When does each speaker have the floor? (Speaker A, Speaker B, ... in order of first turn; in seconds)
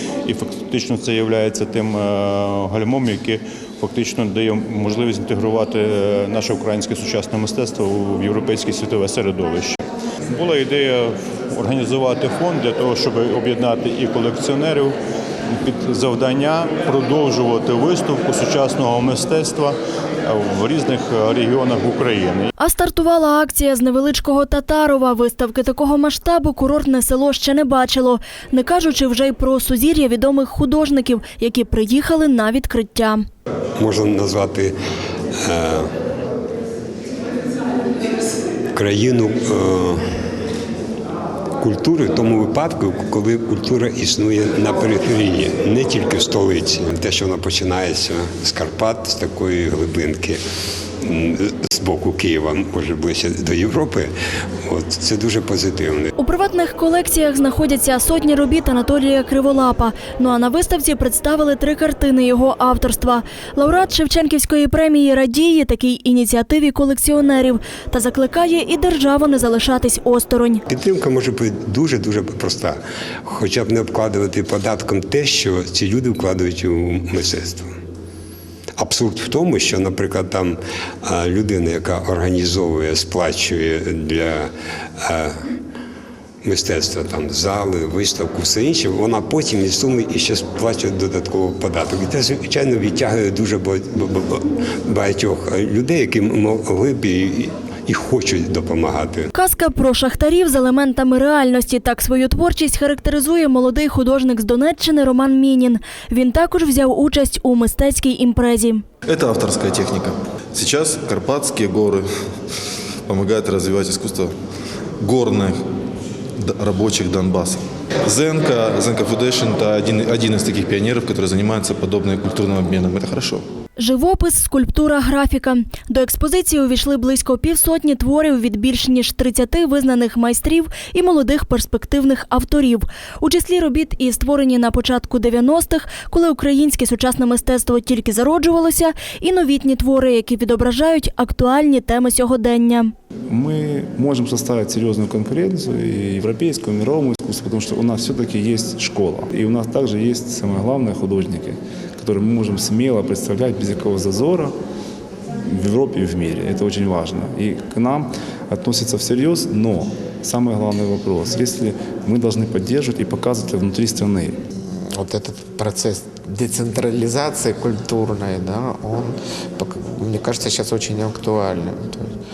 Speaker A: 0.2-9.8, 10.3-15.0, 15.5-19.8, 20.3-22.5
Speaker B: 22.6-33.2, 56.2-70.6, 99.3-108.8, 123.8-142.9
Speaker C: 33.8-34.8, 35.4-35.9, 38.7-40.1, 41.6-50.4, 51.0-54.1, 54.6-56.1, 70.7-77.7, 78.8-85.4, 86.4-99.3
Speaker D: 109.1-112.1, 113.1-114.3, 115.0-115.6, 116.4-123.4
Speaker E: 143.3-154.5, 155.4-164.4
Speaker F: 164.7-172.1